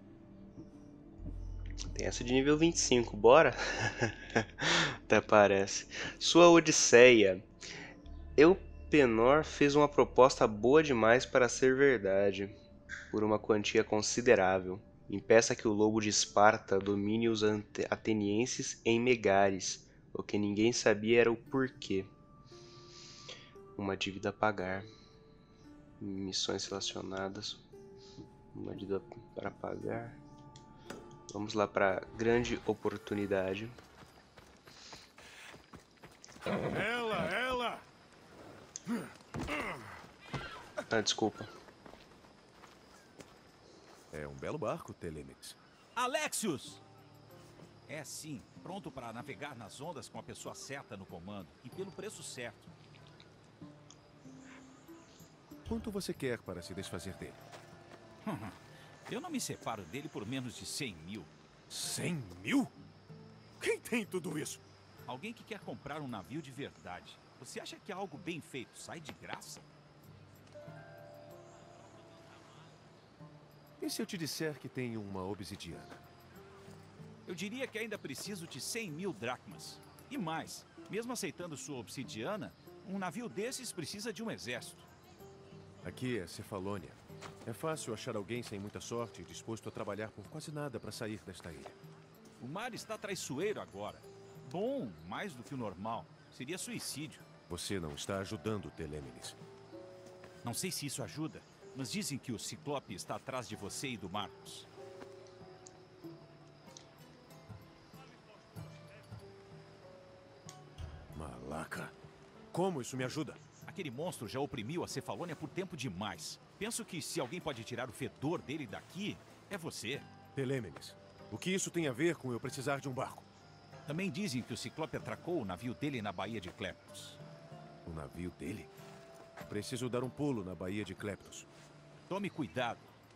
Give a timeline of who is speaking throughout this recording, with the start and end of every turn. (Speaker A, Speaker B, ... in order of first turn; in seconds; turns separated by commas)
Speaker A: 1.9-7.5, Speaker A: 8.4-12.6, Speaker A: 13.1-22.1, Speaker A: 23.8-24.9, Speaker A: 26.0-27.6, Speaker A: 28.5-30.2, Speaker A: 31.3-33.8, Speaker B: 36.7-37.8, Speaker A: 40.9-41.5, Speaker B: 44.1-45.6, Speaker C: 46.0-46.8, Speaker C: 47.9-52.7, Speaker B: 55.7-57.4, Speaker C: 58.2-61.3, Speaker B: 61.7-62.7, Speaker B: 63.6-64.6, Speaker C: 65.1-69.7, Speaker B: 73.8-76.0, Speaker C: 77.2-84.9, Speaker B: 85.8-91.8, Speaker C: 92.4-97.2, Speaker B: 97.5-99.4, Speaker C: 100.4-104.7, Speaker B: 111.1-111.9, Speaker B: 112.5-113.4, Speaker C: 113.7-120.1, Speaker B: 120.3-123.3, Speaker C: 123.9-127.2, Speaker B: 127.8-128.7, Speaker B: 129.5-131.5, Speaker C: 132.1-132.8